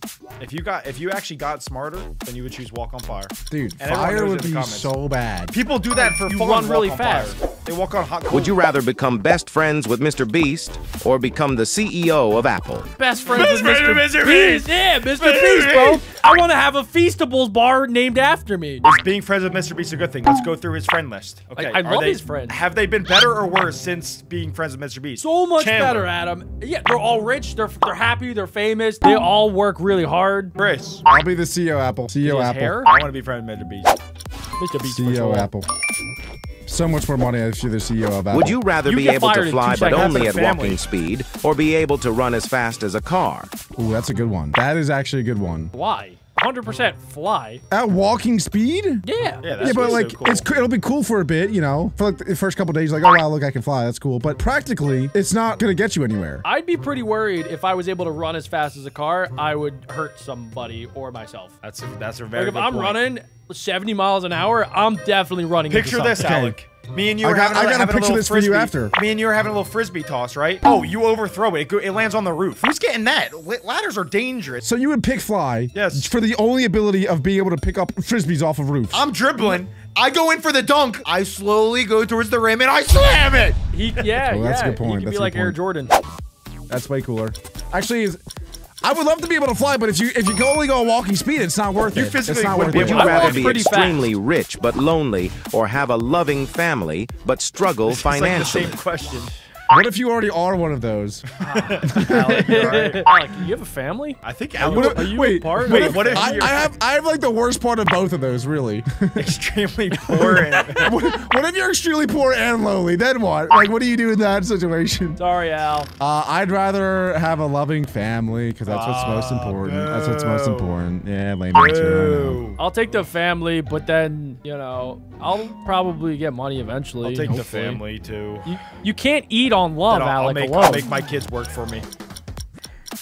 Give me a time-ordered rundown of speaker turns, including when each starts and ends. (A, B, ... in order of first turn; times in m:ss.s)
0:00.4-0:04.9 A
0:03.5-0:05.6 B
0:05.5-0:08.6 A
0:05.9-0:07.4 C
0:08.3-0:12.9 D
0:13.0-0:18.8 C
0:13.3-0:16.0 A
0:18.8-0:26.1 A
0:21.6-0:22.6 C
0:25.2-0:30.6 C
0:30.6-0:31.0 A
0:31.1-0:32.8 B
0:32.2-0:32.9 C
0:32.8-0:34.0 A
0:34.6-0:35.5 C
0:34.8-0:35.7 B
0:36.7-0:38.6 B
0:38.3-0:43.5 D
0:38.8-0:40.4 C
0:39.9-0:40.8 A
0:43.8-0:45.7 B
0:45.7-0:47.6 C
0:47.7-0:49.0 B
0:49.0-0:50.1 C
0:49.4-0:50.5 A
0:49.6-0:56.4 B
0:56.4-1:01.6 C
1:01.6-1:03.0 A
1:02.4-1:06.3 C
1:05.7-1:14.6 A
1:06.2-1:06.6 B
1:07.2-1:09.0 B
1:14.6-1:19.0 B
1:15.7-1:16.1 A
1:18.9-1:23.6 A
1:23.7-1:26.0 C
1:24.2-1:25.6 B
1:26.7-1:28.2 B
1:28.8-1:33.2 B
1:31.9-1:33.7 A
1:32.7-1:38.8 D
1:32.8-1:34.1 C
1:37.9-1:39.3 A
1:39.7-1:41.2 B
1:41.4-1:46.5 C
1:41.4-1:43.1 A
1:41.9-1:43.0 B
1:44.2-1:46.7 A
1:44.6-1:49.4 B
1:49.2-1:50.9 A
1:50.1-1:50.9 C
1:50.8-1:55.2 B
1:55.2-1:55.9 C
1:56.0-2:02.4 B
1:58.7-2:00.8 A
2:01.5-2:02.6 A
2:02.6-2:07.8 C
2:07.0-2:08.5 A
2:08.4-2:10.9 C
2:09.9-2:11.9 A